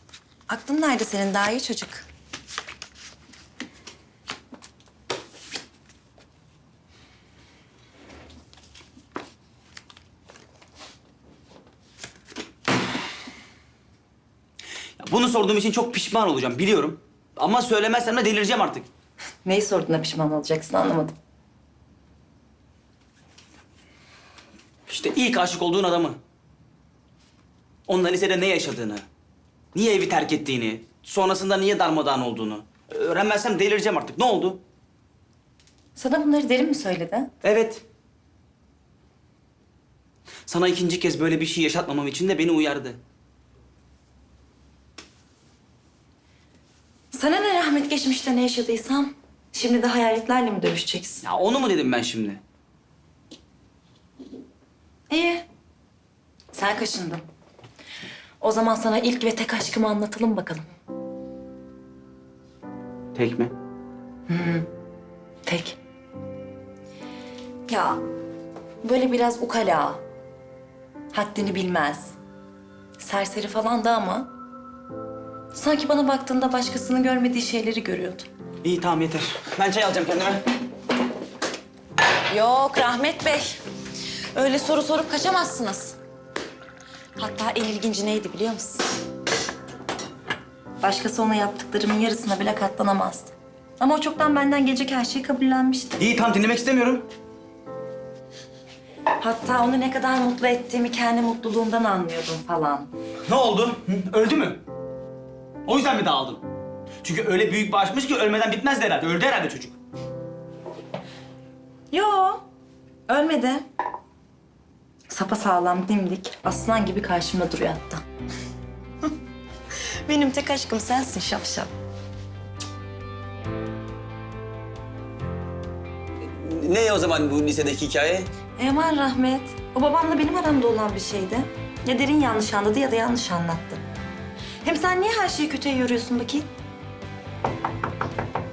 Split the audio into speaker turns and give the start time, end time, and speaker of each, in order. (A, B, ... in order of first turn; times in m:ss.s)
0:00.5-0:02.1 A
0:15.0-0:18.9 B
0:19.4-0:21.1 A
0:24.9-0:26.2 B
0:27.9-0:29.0 B
0:29.7-0:34.6 B
0:36.0-0:37.3 A
0:37.4-0:37.8 B
0:40.5-0:43.0 B
0:47.1-0:51.2 A
0:51.2-0:52.4 B
0:55.1-0:55.4 A
0:56.5-0:57.2 A
0:58.4-1:00.7 A
1:03.1-1:03.5 B
1:04.3-1:04.7 A
1:05.4-1:05.8 A
1:07.7-1:08.0 A
1:08.8-1:10.0 A
1:11.1-1:12.2 A
1:13.0-1:14.3 A
1:15.5-1:18.3 A
1:18.6-1:20.4 B
1:22.3-1:23.6 A
1:24.3-1:26.0 A
1:27.2-1:28.9 A
1:30.8-1:36.0 A
1:36.0-1:37.1 B
1:39.2-1:42.9 A
1:43.3-1:44.6 B
1:45.6-1:46.4 B
1:47.0-1:49.8 B
1:51.9-1:52.4 A
1:53.1-1:53.6 A
1:55.1-1:58.0 A
1:59.8-2:01.7 A
2:06.2-2:08.3 B
2:08.6-2:13.8 A
2:14.6-2:16.5 A